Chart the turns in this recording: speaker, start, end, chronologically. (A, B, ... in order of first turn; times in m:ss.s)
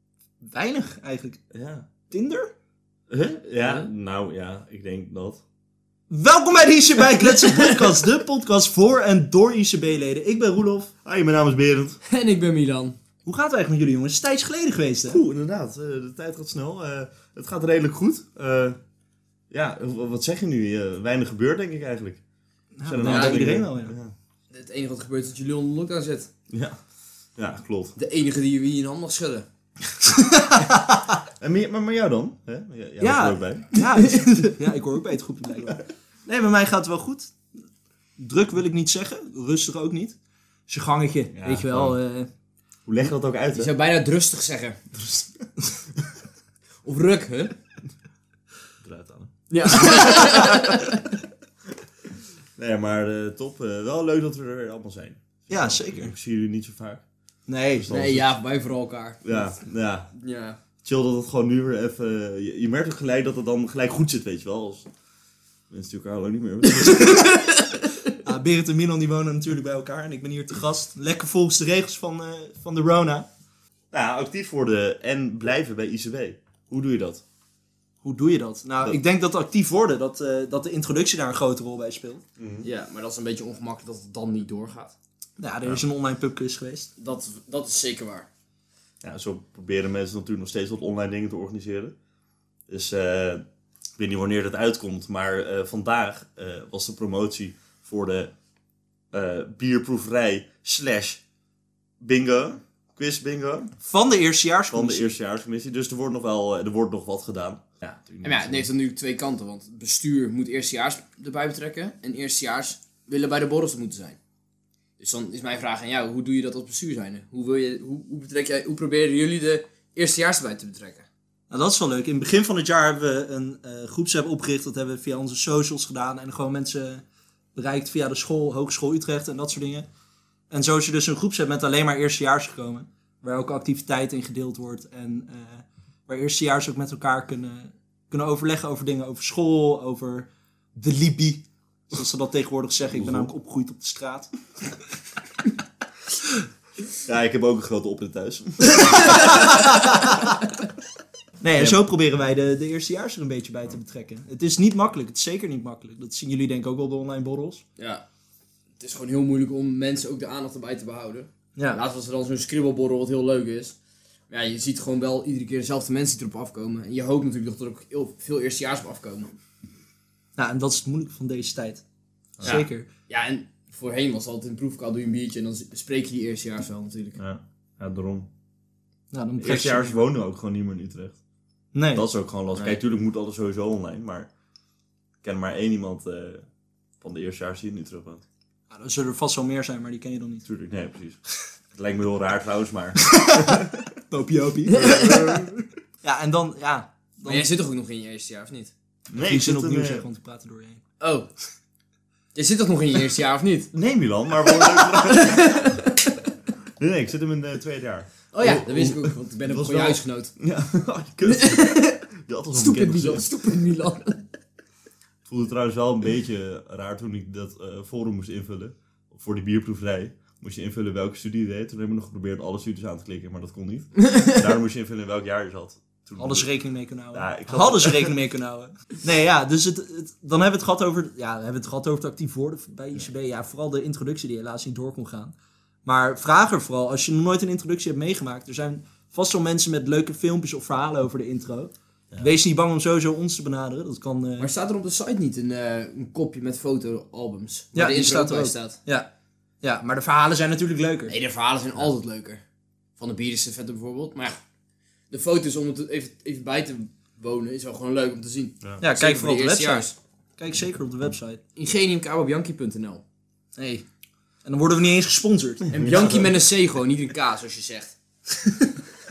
0:00.4-0:01.4 A
0:01.5-0:01.9 B
0:02.1-0:02.5 A
0:03.1-0:05.4 B
0:06.1-0:10.9 A
0:07.1-0:07.8 C
0:11.0-0:12.0 B
0:12.0-0:13.0 C
0:13.2-0:15.2 A
0:15.1-0:18.8 B
0:19.5-0:22.2 B
0:22.8-0:24.0 A
0:22.8-0:24.1 B
0:23.0-0:23.5 C
0:24.5-0:26.3 C
0:26.5-0:26.8 B
0:27.4-0:27.9 B
0:28.0-0:29.5 C
0:30.0-0:31.1 A
0:31.4-0:33.7 B
0:33.0-0:37.4 A
0:33.7-0:34.2 C
0:38.2-0:40.2 A
0:40.7-0:42.3 A
0:41.3-0:42.0 B
0:42.9-0:43.7 B
0:43.5-0:45.0 C
0:46.8-0:47.5 C
0:48.8-0:50.6 B
0:49.5-0:51.0 C
0:52.6-0:57.0 B
0:55.5-0:56.1 A
0:57.5-0:57.9 A
0:57.7-0:58.4 B
0:57.9-0:59.6 C
0:59.2-1:00.1 B
1:00.2-1:00.6 C
1:00.8-1:04.9 B
1:05.7-1:07.3 B
1:06.7-1:08.1 C
1:08.2-1:13.3 A
1:13.9-1:17.2 B
1:18.0-1:22.2 A
1:22.4-1:22.7 B
1:22.6-1:25.0 C
1:25.4-1:26.9 A
1:27.0-1:28.3 C
1:29.0-1:31.9 B
1:32.7-1:33.4 B
1:34.0-1:38.3 B
1:39.1-1:41.2 B
1:42.0-1:43.8 B
1:43.8-1:45.2 A
1:44.7-1:48.7 B
1:48.2-1:54.2 C
1:55.0-2:01.1 C
2:01.5-2:07.0 A
2:07.6-2:09.9 A
2:10.5-2:24.3 A
2:22.9-2:23.3 B
2:27.0-2:29.6 B
2:28.9-2:29.5 C
2:29.3-2:30.2 A
2:31.4-2:37.6 A
2:37.8-2:38.0 C
2:38.8-2:43.8 C
2:41.6-2:41.8 A
2:44.3-2:49.3 C
2:50.4-2:51.8 A
2:52.4-2:52.6 B
2:52.4-2:52.9 A
2:52.4-2:57.2 C
2:57.2-2:58.3 B
2:59.1-3:00.0 A
2:59.4-3:01.2 B
3:01.7-3:02.1 A
3:01.9-3:04.3 B
3:05.2-3:06.4 B
3:07.0-3:08.2 B
3:08.7-3:10.4 A
3:10.5-3:11.2 B
3:11.8-3:13.8 B
3:13.0-3:15.5 A
3:14.7-3:15.4 C
3:14.8-3:15.4 B
3:16.0-3:17.5 A
3:17.2-3:18.7 C
3:19.1-3:20.0 B
3:19.2-3:20.8 A
3:21.0-3:21.3 C
3:22.4-3:23.7 C
3:23.7-3:25.8 B
3:24.5-3:26.2 C
3:26.8-3:33.3 B
3:28.3-3:30.3 C
3:31.3-3:32.0 C
3:32.5-3:34.2 C
3:35.3-3:46.5 B
3:44.0-3:44.4 C
3:46.2-3:55.3 A
3:47.1-3:48.2 B
3:55.8-4:04.5 A
4:04.4-4:08.8 C
4:07.7-4:09.1 A
4:09.6-4:11.2 A
4:11.1-4:12.4 C
4:13.0-4:14.4 C
4:15.1-4:20.0 C
4:18.8-4:21.4 A
4:21.6-4:23.0 C
4:23.6-4:23.8 A
4:24.4-4:25.7 A
4:25.7-4:26.3 B
4:25.7-4:28.0 C
4:28.5-4:28.7 A